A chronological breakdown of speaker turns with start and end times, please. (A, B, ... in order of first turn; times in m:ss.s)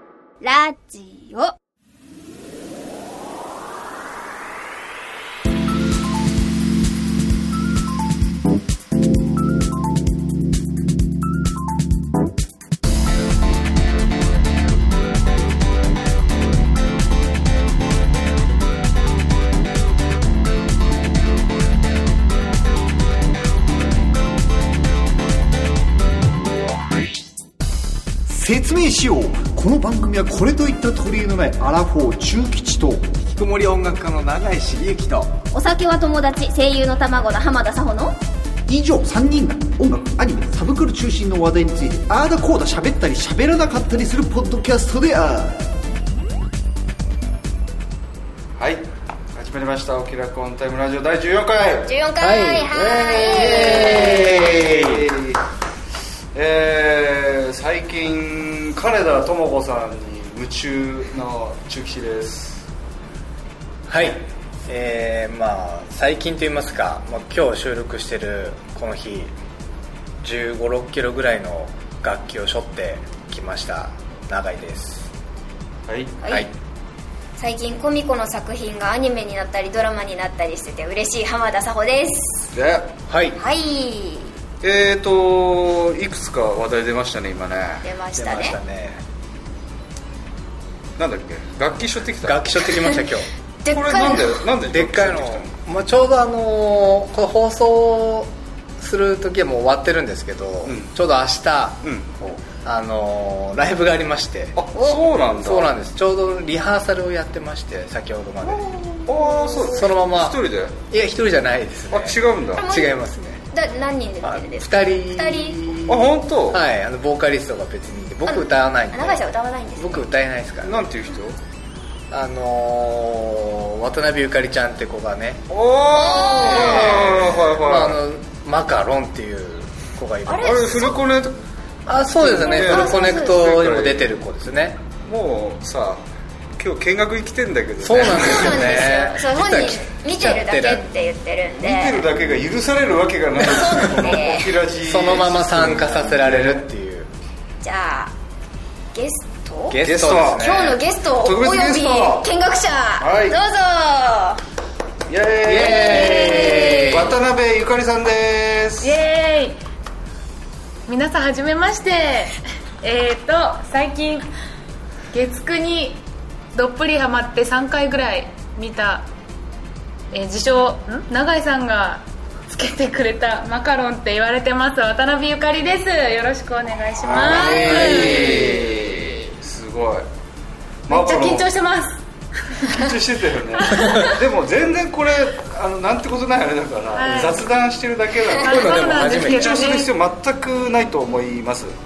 0:00.4-0:01.5 A
0:28.3-0:33.1 B
0:33.2-0:35.4 C
0:35.5-0:38.2 A
0:38.7-0:45.7 B
0:48.6-0:51.9 D
0:51.9-0:54.5 A
0:52.2-0:55.1 C
0:53.1-0:55.4 D
0:56.3-1:02.7 D
1:03.9-1:09.3 C
1:10.2-1:15.1 C
1:15.9-1:16.2 D
1:16.2-1:16.5 A
1:17.4-1:22.5 A
1:22.5-1:22.9 D
1:23.1-1:23.4 C
1:23.4-1:24.3 A
1:24.6-1:27.8 D
1:27.8-1:28.6 A
1:28.2-1:29.0 C
1:31.0-1:32.7 D
1:32.2-1:33.3 C
1:33.6-1:34.4 A
1:33.7-1:35.6 D
1:34.7-1:44.6 C
1:40.7-1:40.9 D
1:41.8-1:42.1 D
1:44.6-1:45.7 D
1:44.7-1:45.0 A
1:45.1-1:48.8 C
1:48.6-1:49.8 A
1:48.6-1:50.8 D
1:49.6-1:53.4 C
1:51.9-1:52.7 D
1:52.6-1:53.0 A
1:53.5-1:55.7 A
1:54.2-1:59.2 C
1:55.9-1:56.6 D
1:58.3-2:00.0 A
1:59.8-2:00.8 C
2:00.6-2:01.4 D
2:02.1-2:05.5 C
2:05.5-2:08.0 D
2:06.0-2:07.1 A
2:06.0-2:10.9 C
2:10.3-2:11.0 A
2:10.4-2:11.4 D
2:11.9-2:14.8 C
2:12.2-2:14.1 D
2:12.2-2:13.4 A
2:15.1-2:16.0 D
2:16.6-2:18.9 D
2:17.8-2:21.0 C
2:18.0-2:22.1 A
2:21.6-2:26.6 D
2:23.4-2:24.6 A
2:24.8-2:27.1 C
2:27.6-2:28.1 A
2:28.9-2:34.4 A
2:29.7-2:30.8 C
2:29.8-2:32.3 D
2:33.0-2:33.4 D
2:35.1-2:39.0 D
2:35.4-2:37.2 C
2:35.6-2:37.1 A
2:38.8-2:39.6 E
2:40.9-2:44.3 E
2:45.1-2:46.0 E
2:46.5-2:49.1 E
2:50.1-2:58.6 E
2:57.1-2:58.9 C
2:57.1-3:00.0 D
2:57.3-2:58.2 A
3:00.9-3:01.5 D
3:00.9-3:02.9 E
3:02.6-3:11.7 D
3:03.6-3:04.2 E
3:03.8-3:04.1 C
3:06.9-3:07.4 E
3:08.4-3:09.7 C
3:08.4-3:09.9 E